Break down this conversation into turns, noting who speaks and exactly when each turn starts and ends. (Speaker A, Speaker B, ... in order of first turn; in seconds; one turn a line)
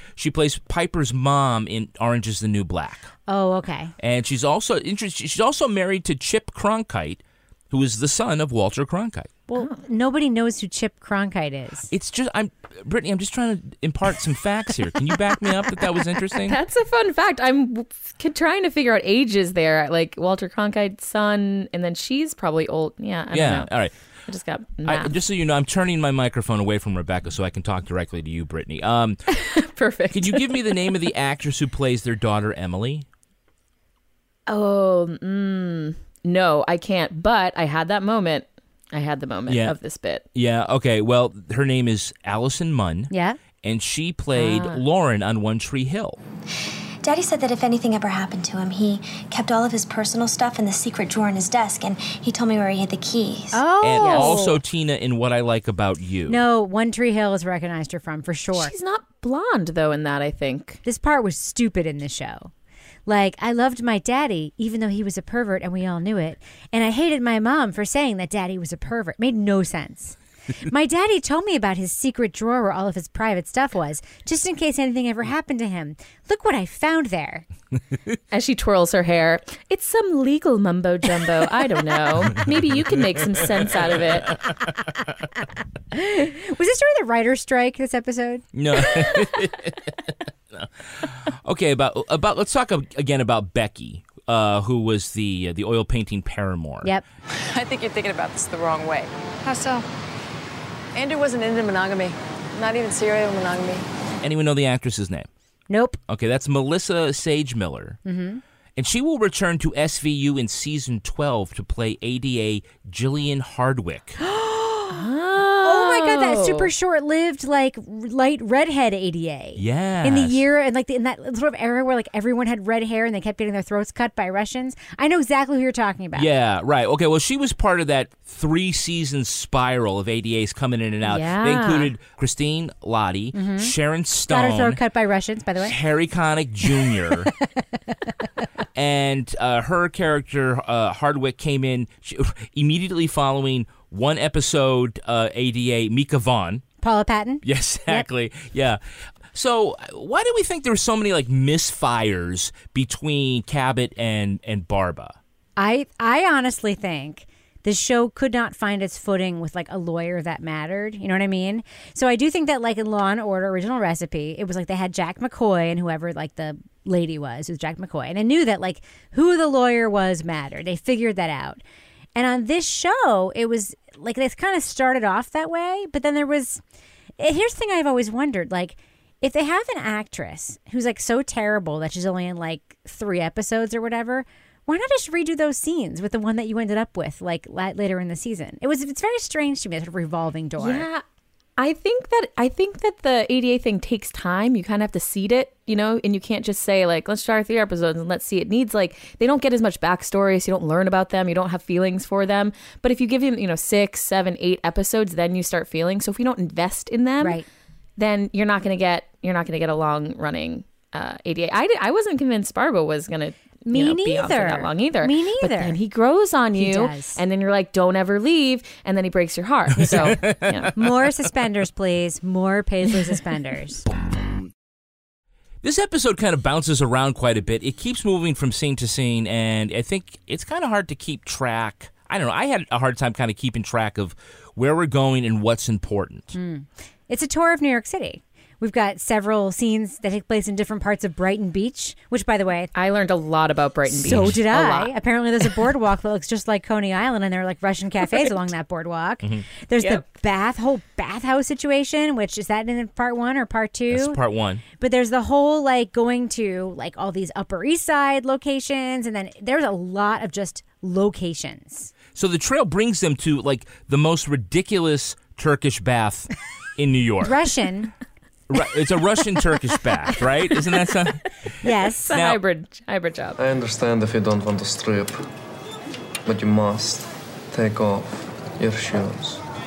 Speaker A: 0.2-3.1
Speaker B: 3.3-3.9
Speaker A: 4.0-9.3
Speaker B: 9.5-11.9
Speaker A: 11.9-16.6
Speaker C: 16.4-23.7
Speaker A: 23.3-23.9
Speaker C: 24.3-25.1
Speaker A: 24.8-29.2
Speaker C: 29.3-30.8
Speaker A: 30.1-33.0
Speaker C: 34.5-40.2
Speaker A: 39.5-39.7
Speaker A: 40.3-46.2
Speaker B: 43.1-43.4
Speaker B: 44.4-44.7
Speaker D: 47.0-53.6
Speaker B: 53.5-54.6
Speaker A: 53.8-56.4
Speaker C: 54.0-54.3
Speaker B: 56.3-58.7
Speaker C: 58.5-60.8
Speaker B: 60.8-62.5
Speaker B: 63.0-77.4
Speaker C: 78.3-84.3
Speaker B: 85.9-88.5
Speaker A: 88.5-89.8
Speaker A: 90.5-96.9
Speaker E: 97.5-99.8
Speaker E: 100.9-103.8
Speaker A: 104.2-105.3
Speaker B: 105.7-106.0
Speaker A: 106.1-108.0
Speaker B: 108.0-108.4
Speaker A: 108.8-114.2
Speaker B: 114.2-115.0
Speaker C: 114.9-116.7
Speaker B: 115.6-126.3
Speaker A: 119.5-120.4
Speaker A: 126.2-134.8
Speaker B: 131.1-131.9
Speaker B: 133.3-133.7
Speaker B: 134.3-135.8
Speaker A: 135.6-137.3
Speaker B: 136.7-137.3
Speaker A: 138.7-146.6
Speaker B: 146.8-148.1
Speaker A: 147.4-148.8
Speaker A: 149.3-155.2
Speaker B: 155.6-171.6
Speaker B: 172.1-176.6
Speaker B: 177.2-190.9
Speaker C: 190.6-191.0
Speaker C: 191.6-207.4
Speaker B: 207.2-207.4
Speaker C: 208.0-220.7
Speaker B: 213.6-215.8
Speaker B: 216.5-217.2
Speaker A: 219.8-220.7
Speaker B: 219.8-220.1
Speaker B: 220.7-223.8
Speaker A: 225.6-236.3
Speaker B: 236.3-242.7
Speaker C: 242.7-244.9
Speaker B: 243.9-254.2
Speaker A: 244.1-244.3
Speaker A: 253.9-254.6
Speaker B: 254.8-261.9
Speaker A: 262.1-267.4
Speaker B: 267.2-267.9
Speaker A: 268.5-271.5
Speaker B: 271.6-272.1
Speaker C: 272.1-273.4
Speaker A: 272.1-272.4
Speaker F: 273.4-275.2
Speaker F: 276.2-279.4